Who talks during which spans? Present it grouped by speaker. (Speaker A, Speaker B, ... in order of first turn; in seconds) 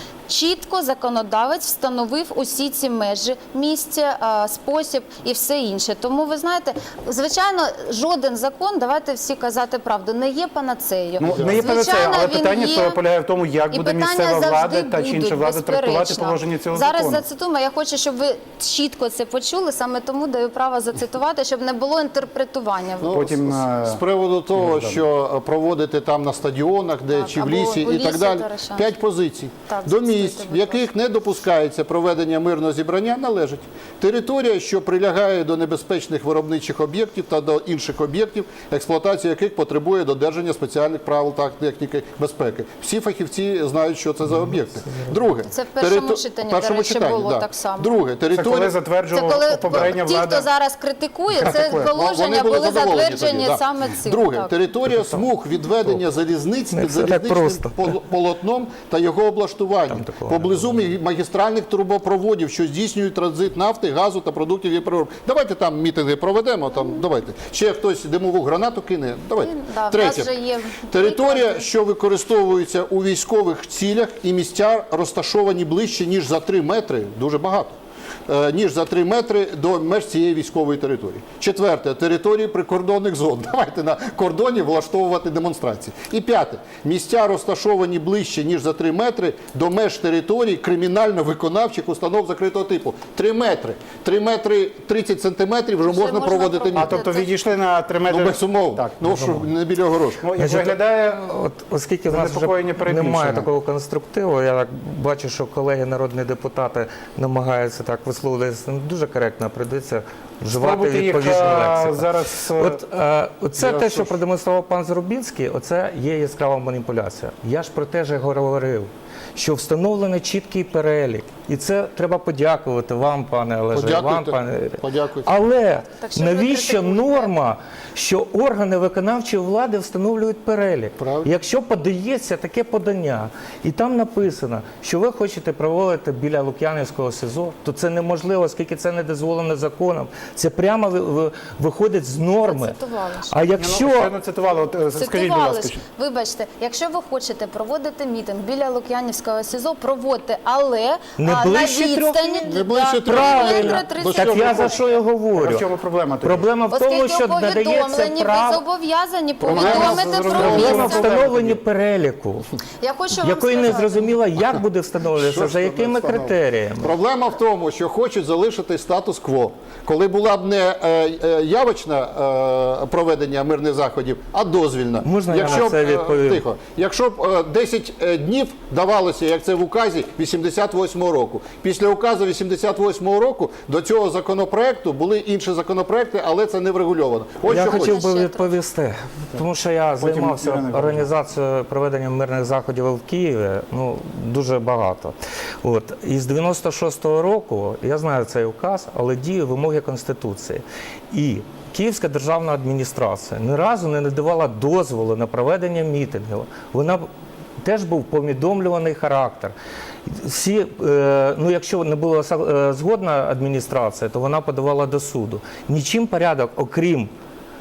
Speaker A: 0.3-13.0, 13.7-23.2, 27.1-28.9, 29.7-30.8, 45.5-47.9, 49.1-54.5, 69.4-71.6, 95.9-97.3, 125.8-127.3, 142.4-143.3, 144.9-154.9, 156.7-161.2, 162.8-164.1, 187.7-188.6
Speaker B: 11.2-17.2, 23.1-24.0, 24.6-25.0, 48.3-50.5, 51.5-51.9, 96.7-99.0, 100.2-101.3, 102.1-103.5, 110.5-112.8, 143.6-145.8, 155.3-156.5, 159.4-161.6, 190.0-191.1
Speaker C: 11.2-11.6, 23.0-48.7, 51.4-70.3, 70.9-77.8, 78.3-97.0, 98.1-100.2, 113.5-114.1, 123.7-125.3, 131.0-131.3, 152.5-154.7, 160.3-160.7, 165.1-188.0
Speaker D: 44.3-45.2, 56.7-57.9, 59.9-60.9, 99.0-99.5, 100.4-142.7, 143.3-144.1, 151.2-155.6, 156.2-158.6, 159.5-162.5, 163.1-166.9, 175.0-176.4, 187.4-207.1, 207.6-209.5, 210.1-217.1